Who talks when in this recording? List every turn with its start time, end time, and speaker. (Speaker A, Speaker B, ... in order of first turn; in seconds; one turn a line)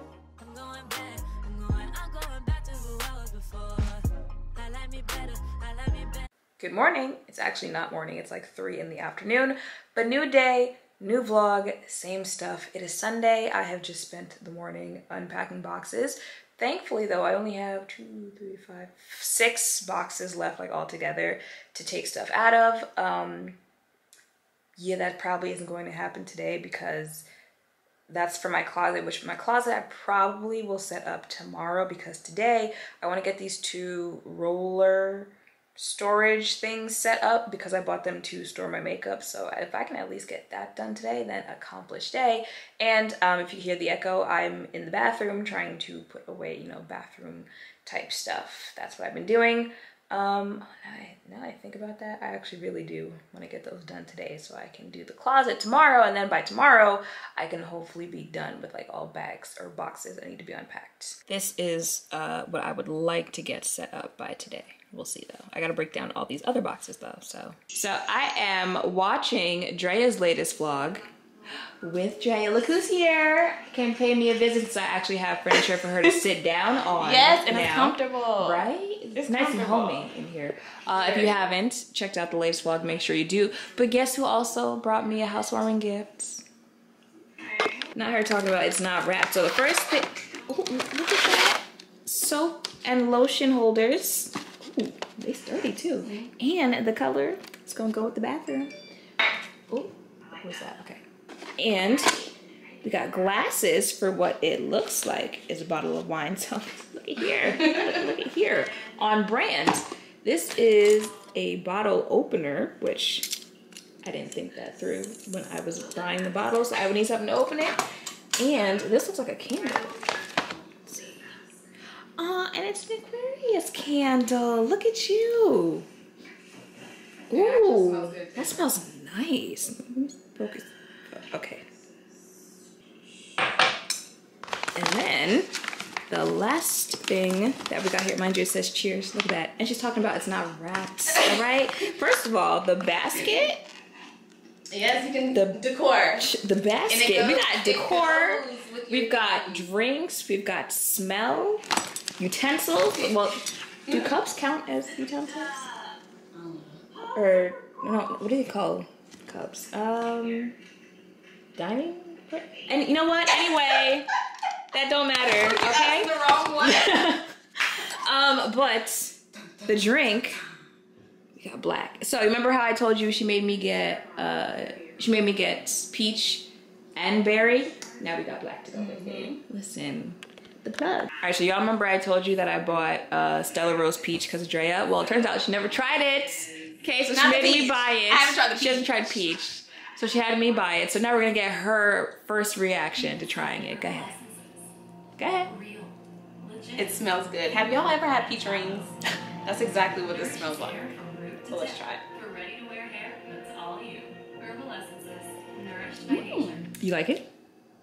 Speaker A: 0.4-4.0
Speaker A: 4.5-6.2
Speaker B: 6.6-23.6
Speaker B: 24.8-27.2
Speaker B: 28.1-71.1
Speaker B: 71.8-86.5
Speaker C: 76.9-80.1
Speaker C: 81.0-81.3
Speaker B: 87.9-98.7
Speaker B: 99.7-101.0
Speaker B: 101.6-102.3
Speaker B: 102.8-113.4
Speaker B: 114.0-117.8
Speaker B: 118.4-120.0
Speaker C: 120.0-120.9
Speaker B: 120.9-121.2
Speaker B: 122.2-125.9
Speaker C: 127.3-128.7
Speaker B: 127.3-131.7
Speaker B: 134.7-135.5
Speaker B: 136.1-143.6
Speaker C: 144.7-146.3
Speaker B: 145.3-151.6
Speaker C: 146.9-149.6
Speaker B: 152.2-155.7
Speaker C: 156.3-157.0
Speaker B: 157.1-160.6
Speaker B: 161.6-164.1
Speaker B: 164.7-170.4
Speaker C: 165.4-167.1
Speaker B: 171.3-194.2
Speaker C: 178.7-179.4
Speaker C: 187.1-189.4
Speaker D: 193.4-194.5
Speaker B: 195.2-195.5
Speaker C: 196.8-198.9
Speaker D: 197.5-198.8
Speaker C: 199.4-202.0
Speaker D: 199.8-201.6
Speaker A: 202.9-204.1
Speaker D: 205.4-206.7
Speaker C: 206.1-206.7
Speaker B: 206.7-207.3